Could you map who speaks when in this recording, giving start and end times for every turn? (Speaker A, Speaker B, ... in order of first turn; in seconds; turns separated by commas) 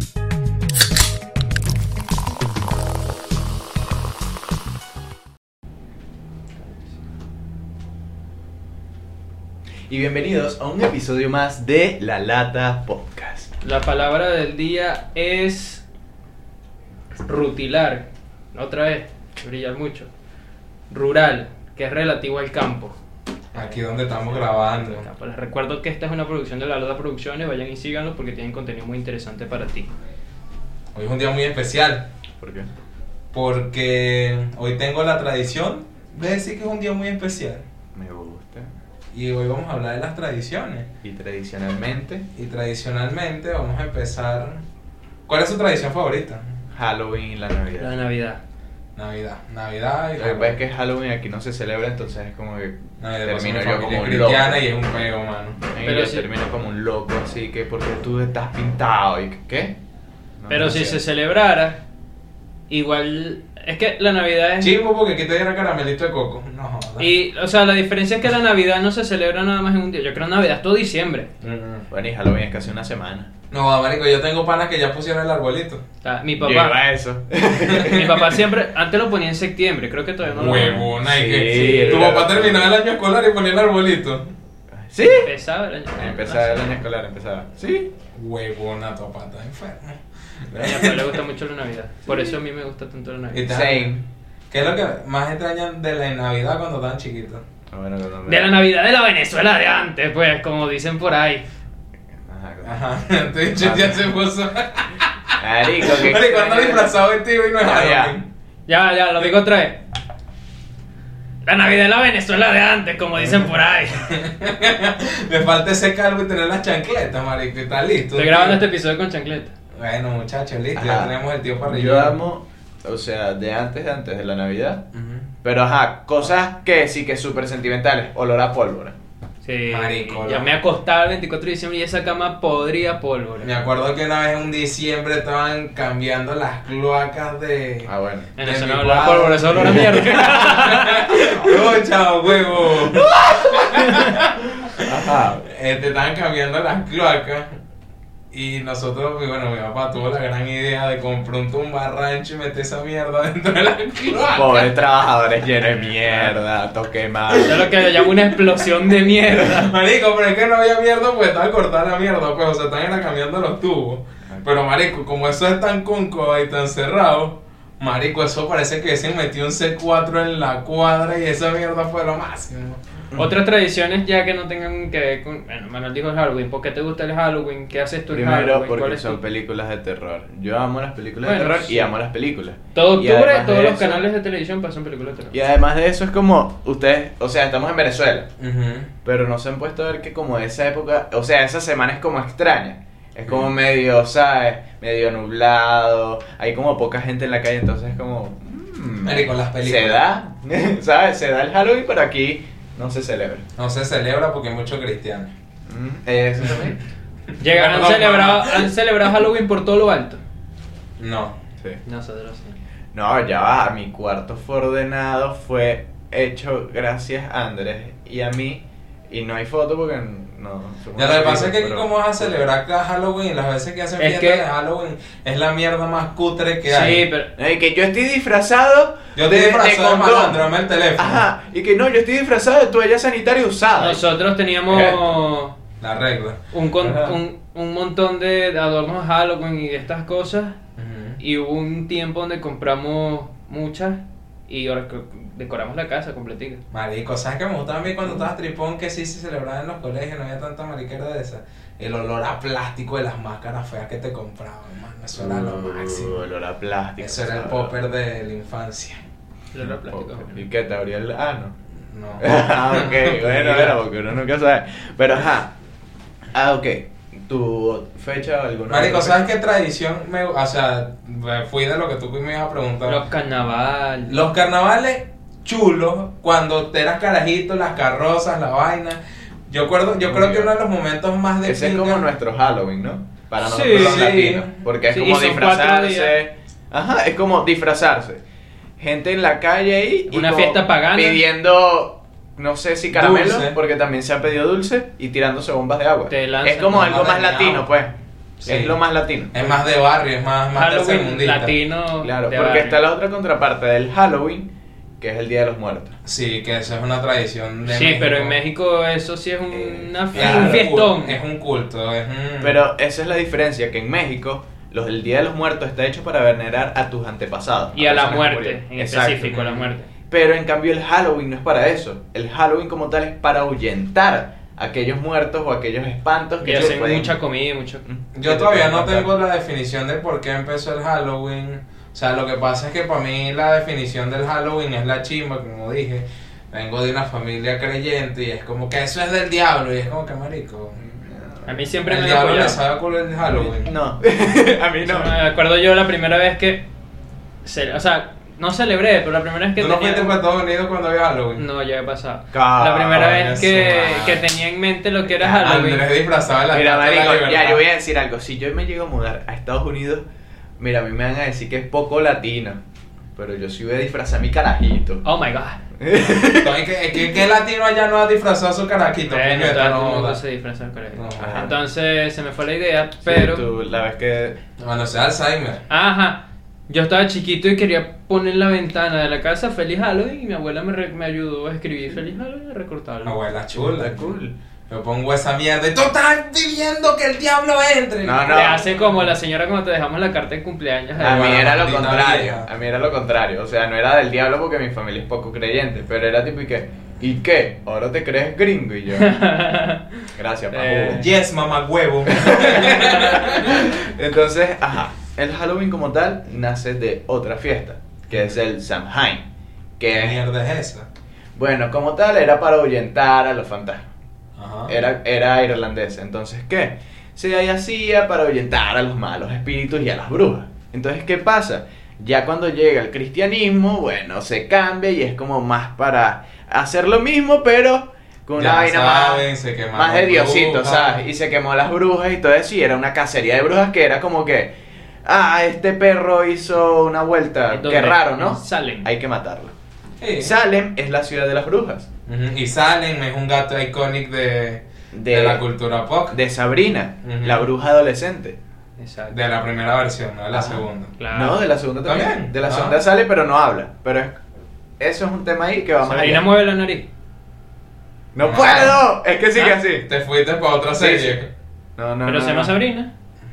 Speaker A: 9.9-13.5, Speaker B: 13.6-15.8, Speaker B: 17.2-20.1, Speaker B: 20.9-22.9, Speaker C: 23.5-25.1, Speaker B: 23.5-29.9, Speaker C: 30.9-32.1, Speaker A: 32.4-32.7, Speaker C: 33.3-37.6, Speaker A: 37.9-38.7, Speaker C: 39.1-40.9, Speaker A: 41.0-42.3, Speaker C: 42.4-44.6, Speaker C: 45.3-46.5, Speaker A: 46.7-47.9, Speaker B: 47.8-48.4, Speaker C: 49.0-50.6, Speaker A: 50.2-54.6, Speaker C: 53.0-55.6, Speaker A: 55.7-59.8, Speaker B: 55.8-56.3, Speaker A: 60.4-61.0, Speaker B: 60.5-61.8, Speaker B: 62.7-64.8, Speaker C: 64.6-67.1, Speaker B: 67.0-71.3, Speaker C: 71.4-71.9, Speaker A: 71.9-73.3, Speaker C: 73.5-75.8, Speaker B: 76.0-76.8, Speaker A: 76.4-78.3, Speaker C: 77.7-78.0, Speaker B: 77.8-80.9, Speaker A: 80.3-82.7, Speaker C: 80.4-84.2, Speaker B: 81.4-82.2, Speaker A: 84.8-85.3, Speaker B: 85.1-86.7, Speaker A: 86.0-87.9, Speaker C: 88.1-91.0, Speaker A: 90.5-90.9, Speaker B: 90.6-93.6, Speaker C: 93.3-97.4, Speaker A: 93.5-94.0, Speaker A: 97.7-98.6, Speaker B: 98.3-101.4, Speaker A: 102.2-102.9, Speaker C: 102.6-108.3, Speaker A: 103.6-104.1, Speaker A: 105.4-106.9, Speaker A: 107.6-108.2, Speaker B: 108.7-109.8, Speaker B: 111.5-114.1, Speaker C: 114.1-118.6, Speaker B: 118.1-119.5, Speaker C: 119.8-122.2, Speaker A: 120.7-124.8, Speaker C: 124.9-125.3, Speaker A: 125.4-129.0, Speaker B: 129.4-133.6, Speaker C: 129.7-130.5, Speaker C: 133.4-147.6, Speaker A: 137.9-138.3, Speaker B: 138.4-141.5, Speaker A: 139.6-140.3, Speaker A: 142.9-143.8, Speaker A: 144.6-145.4, Speaker C: 148.3-154.8, Speaker A: 154.3-157.7, Speaker B: 157.4-159.7, Speaker C: 159.3-172.8, Speaker B: 173.2-179.2, Speaker A: 178.1-184.0, Speaker B: 181.2-182.0, Speaker B: 182.7-185.3, Speaker A: 185.3-188.3, Speaker C: 188.4-188.9, Speaker A: 189.0-203.4, Speaker C: 199.1-200.0, Speaker C: 203.6-205.3, Speaker A: 205.7-206.8, Speaker C: 207.4-208.7, Speaker B: 207.4-210.2, Speaker C: 211.0-211.3, Speaker B: 211.9-212.6, Speaker A: 212.9-222.4, Speaker C: 221.0-227.1, Speaker B: 224.0-224.4, Speaker B: 226.7-227.3, Speaker A: 227.4-230.4, Speaker C: 229.2-231.3, Speaker A: 231.0-234.0, Speaker B: 233.8-235.6, Speaker A: 234.7-235.1, Speaker C: 235.8-236.4, Speaker B: 236.5-240.6, Speaker A: 236.8-237.2, Speaker C: 240.8-241.2, Speaker B: 241.2-246.6, Speaker C: 246.7-256.2, Speaker A: 255.2-257.7, Speaker C: 257.0-259.0, Speaker B: 259.5-260.5, Speaker A: 259.6-261.5, Speaker C: 261.9-263.8, Speaker A: 262.2-265.5, Speaker A: 266.3-269.2, Speaker C: 268.7-273.0, Speaker B: 272.9-274.2, Speaker C: 274.1-282.1, Speaker A: 280.1-280.5, Speaker A: 281.4-288.2, Speaker B: 283.4-284.2, Speaker C: 283.7-284.5, Speaker B: 284.9-286.2, Speaker A: 288.8-297.9, Speaker B: 290.1-291.2, Speaker C: 292.9-293.6, Speaker B: 296.1-297.5, Speaker C: 296.7-297.6, Speaker A: 298.4-299.6, Speaker C: 298.5-298.8, Speaker C: 299.3-301.5, Speaker B: 300.5-302.8, Speaker A: 302.0-305.9, Speaker C: 306.1-308.4, Speaker B: 307.7-311.2, Speaker A: 309.5-310.7, Speaker C: 310.1-312.6, Speaker A: 312.4-327.1, Speaker B: 317.7-319.9, Speaker B: 326.4-327.8, Speaker C: 326.4-326.8, Speaker A: 327.9-329.1, Speaker C: 328.1-340.8, Speaker A: 340.8-341.6, Speaker B: 341.5-342.6, Speaker C: 341.9-343.7, Speaker A: 343.3-345.1, Speaker B: 344.8-346.6, Speaker B: 347.4-350.2, Speaker C: 349.6-351.4, Speaker B: 351.4-355.9, Speaker A: 352.3-353.3, Speaker C: 352.9-354.3, Speaker C: 355.2-357.6, Speaker A: 356.5-360.1, Speaker A: 360.6-362.6, Speaker A: 363.2-365.0, Speaker B: 365.0-365.6, Speaker A: 365.8-366.6, Speaker C: 366.4-370.2, Speaker B: 369.1-373.4, Speaker C: 370.9-371.5, Speaker A: 371.2-371.5, Speaker A: 373.0-374.4, Speaker C: 374.6-375.6, Speaker B: 375.7-383.2, Speaker C: 383.0-384.2, Speaker A: 383.6-384.3, Speaker C: 384.7-389.1, Speaker A: 388.0-388.6, Speaker B: 388.2-391.5, Speaker A: 391.0-399.1, Speaker C: 391.0-392.5, Speaker B: 398.9-401.1, Speaker A: 400.2-401.1, Speaker C: 400.9-403.7, Speaker A: 402.1-409.3, Speaker B: 402.6-403.4, Speaker A: 409.8-410.2, Speaker C: 409.9-410.9, Speaker A: 411.4-413.9, Speaker C: 414.4-414.7, Speaker A: 414.7-434.5, Speaker C: 428.4-431.0, Speaker A: 435.1-439.5, Speaker B: 437.5-438.9, Speaker C: 440.0-440.3, Speaker A: 440.2-441.9, Speaker C: 442.1-446.2, Speaker A: 444.9-445.4, Speaker A: 446.1-448.4, Speaker C: 447.0-447.5, Speaker B: 448.8-449.2, Speaker C: 449.1-450.9, Speaker A: 450.3-454.2, Speaker B: 451.0-451.4, Speaker C: 451.9-452.8, Speaker A: 454.8-456.3, Speaker B: 455.8-456.9, Speaker A: 458.1-459.9, Speaker C: 458.2-458.8, Speaker B: 458.5-458.7, Speaker C: 459.9-461.3, Speaker A: 460.8-461.2, Speaker A: 461.8-462.6, Speaker B: 462.1-462.9